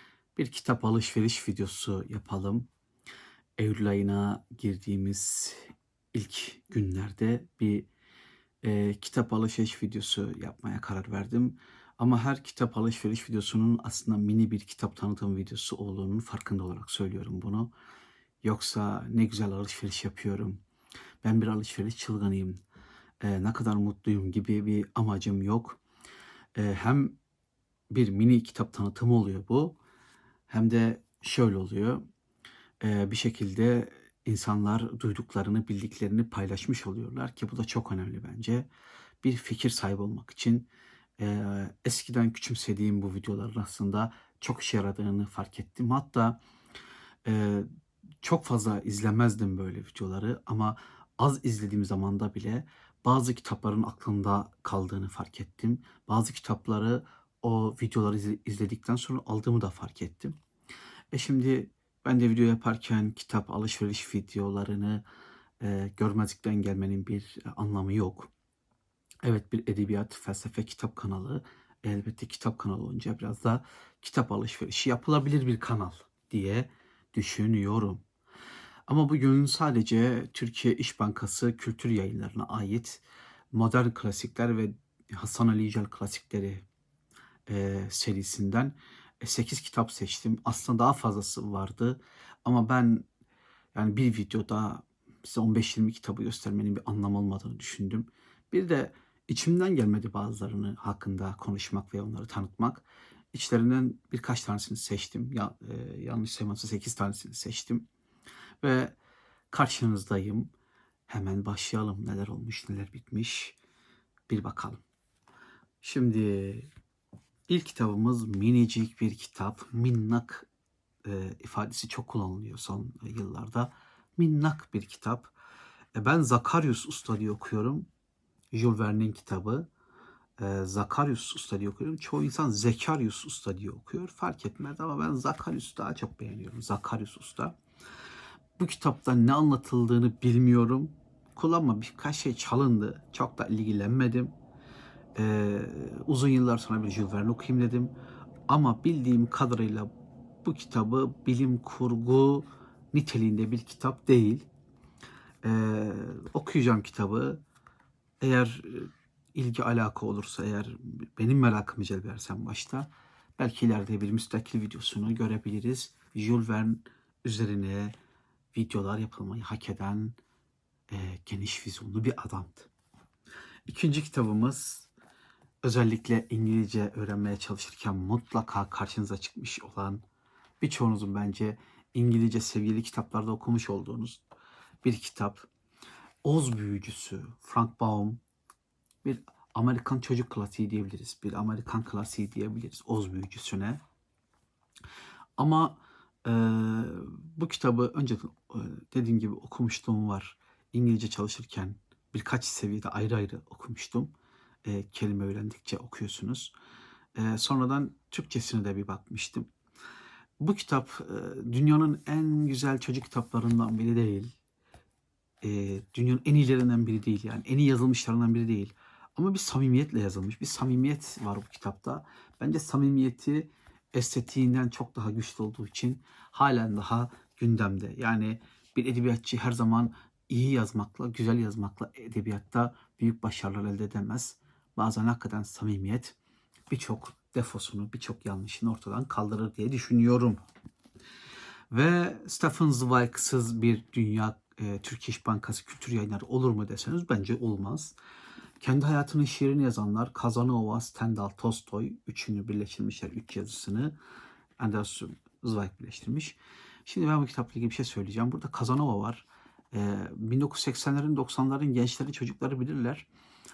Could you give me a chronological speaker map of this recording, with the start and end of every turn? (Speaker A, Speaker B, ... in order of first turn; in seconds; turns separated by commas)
Speaker A: 0.3-2.7, Speaker A: 3.6-7.9, Speaker A: 8.6-17.7, Speaker A: 18.4-20.6, Speaker A: 21.2-22.6, Speaker A: 23.2-25.8, Speaker A: 26.5-27.2, Speaker A: 27.9-29.8, Speaker A: 30.5-32.0, Speaker A: 32.8-38.7, Speaker A: 39.2-40.7, Speaker A: 41.2-46.4, Speaker A: 47.2-47.7, Speaker A: 48.2-60.3, Speaker A: 61.1-65.0, Speaker A: 65.6-68.3, Speaker A: 69.2-78.0, Speaker A: 78.9-86.7, Speaker A: 87.5-93.1, Speaker A: 93.7-107.9, Speaker A: 108.6-109.0, Speaker A: 109.5-110.5, Speaker A: 111.1-113.6, Speaker A: 114.3-114.8, Speaker A: 115.8-116.7, Speaker A: 117.5-120.5, Speaker A: 121.0-125.3, Speaker A: 126.0-127.9, Speaker A: 128.5-129.7, Speaker A: 130.4-137.6, Speaker A: 138.6-144.3, Speaker A: 145.2-147.9, Speaker A: 148.5-149.9, Speaker A: 150.4-154.5, Speaker A: 155.4-157.4, Speaker A: 158.2-167.9, Speaker A: 168.5-170.2, Speaker A: 170.9-172.7, Speaker A: 173.7-174.9, Speaker A: 175.6-180.0, Speaker A: 180.6-184.2, Speaker A: 184.8-185.5, Speaker A: 186.2-188.2, Speaker A: 189.0-193.8, Speaker A: 195.4-204.1, Speaker A: 204.6-206.5, Speaker A: 207.1-209.5, Speaker A: 210.4-214.3, Speaker A: 215.4-236.2, Speaker A: 236.7-240.4, Speaker A: 241.7-247.9, Speaker A: 248.6-253.9, Speaker A: 254.6-263.1